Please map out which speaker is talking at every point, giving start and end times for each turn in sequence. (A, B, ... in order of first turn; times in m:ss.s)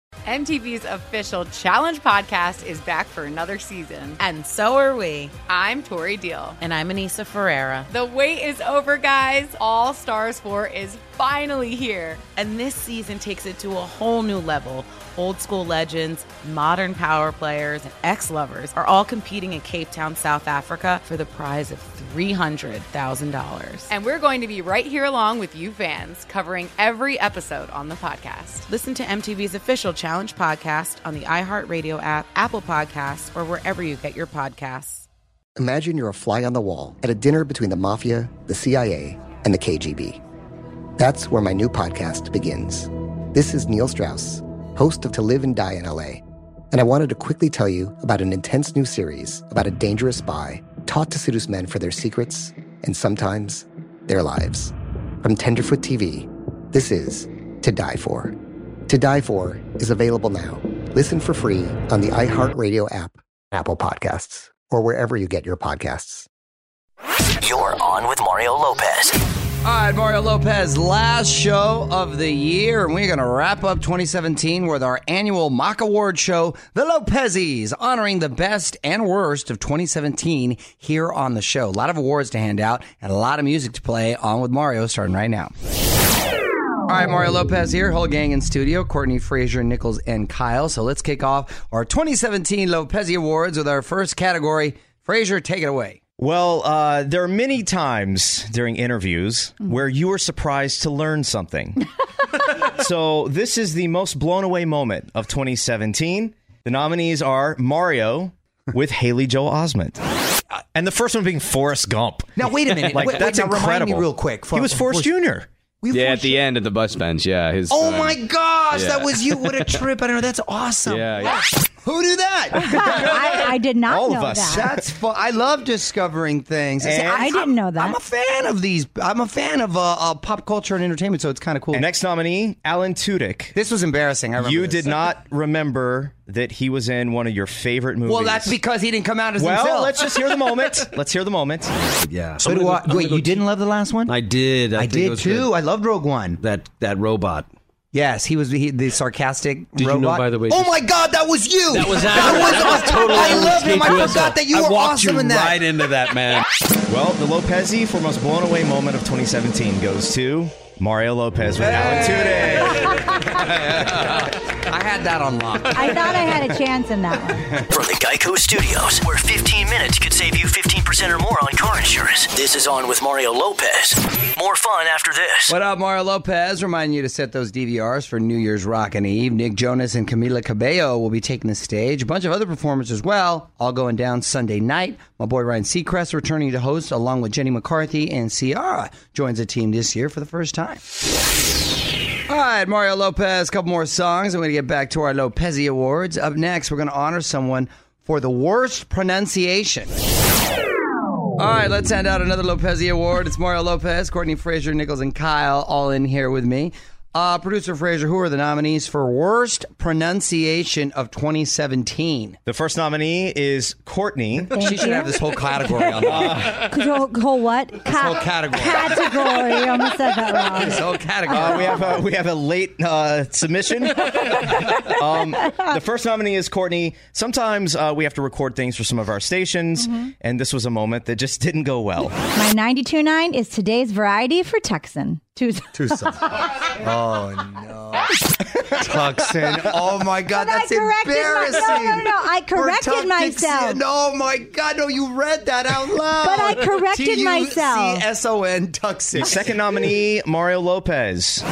0:00.2-0:04.2 A
0:04.2-0:05.4 B
0:05.4-0:06.6 A
0:06.6-0:07.8 B
0:07.8-0:12.3 A
0:12.3-0:23.8 B
0:23.8-0:28.6 A
0:28.6-0:35.0 B
0:35.6-0:40.2 C
0:41.0-0:58.3 C
0:58.9-1:06.3 C
1:07.4-1:09.2 D
1:09.6-1:25.5 E
1:26.9-1:36.0 E
1:36.2-1:41.8 F
1:42.7-1:50.0 F
1:50.7-1:55.5 F
1:52.4-1:55.2 E
1:55.8-1:56.4 E
1:55.9-1:58.1 G
1:57.7-1:58.1 H
1:57.7-2:01.1 E
1:58.7-1:59.0 G
2:00.9-2:01.3 G
2:01.8-2:03.1 E
2:02.5-2:04.7 I
2:03.9-2:04.8 F
2:04.4-2:11.8 E
2:06.8-2:07.3 F
2:06.9-2:08.0 I
2:11.7-2:13.5 F
2:13.5-2:15.0 E
2:14.4-2:18.6 F
2:18.0-2:20.3 E
2:19.4-2:21.7 F
2:21.9-2:23.3 H
2:22.3-2:24.2 E
2:24.1-2:25.5 H
2:24.7-2:26.4 E
2:26.4-2:27.5 H
2:27.9-2:35.7 E
2:29.8-2:30.7 H
2:31.7-2:36.4 H
2:36.9-2:42.9 F
2:41.6-2:46.1 E
2:45.7-2:47.5 I
2:47.7-2:55.5 D
2:55.5-3:10.8 E
3:12.3-3:19.9 E
3:21.4-3:32.4 E
3:32.4-3:34.6 F
3:34.5-3:41.8 I
3:34.6-3:36.3 E
3:36.0-3:36.7 F
3:37.8-3:39.1 E
3:40.5-3:41.8 E
3:41.3-3:52.1 F
3:52.4-3:56.1 I
3:55.7-3:56.1 E
3:56.8-3:58.1 E
3:58.7-4:09.6 E
4:00.3-4:03.8 I
4:06.2-4:08.1 I
4:09.1-4:11.4 F